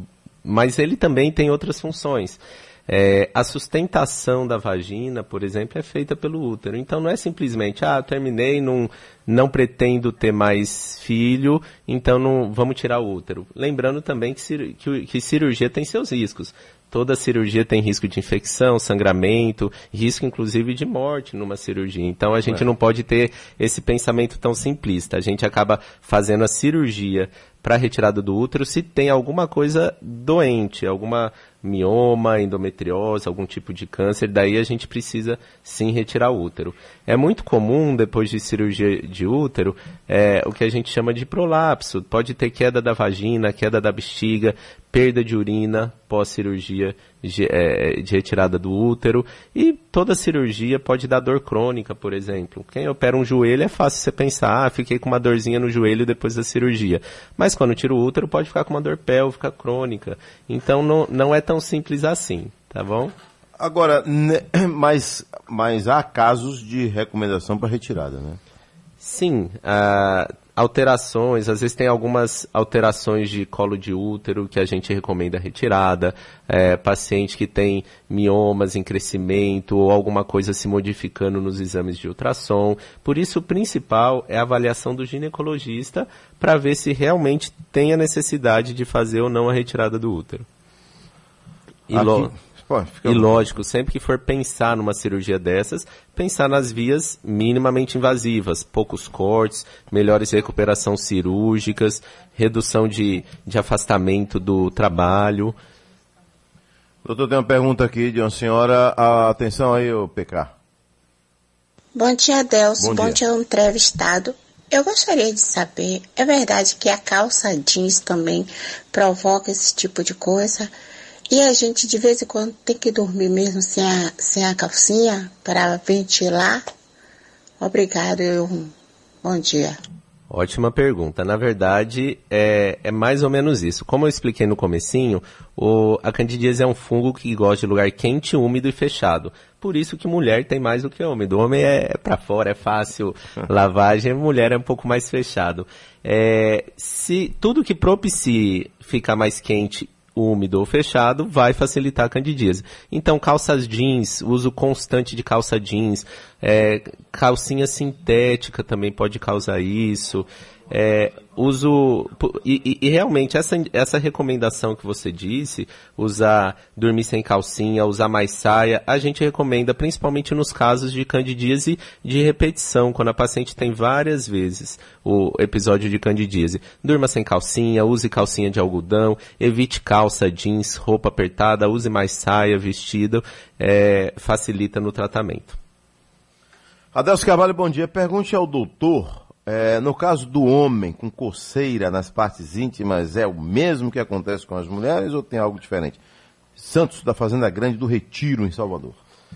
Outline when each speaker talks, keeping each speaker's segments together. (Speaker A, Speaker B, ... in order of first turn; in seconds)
Speaker A: 0.4-63.1, 69.0-90.5, 91.9-92.3, 93.0-105.5, 130.3-185.6
Speaker B: 63.6-68.4, 91.9-93.4, 107.0-110.5, 112.8-113.2, 186.9-196.0, 196.6-199.0
Speaker C: 112.0-120.7, 121.3-126.6, 127.6-129.8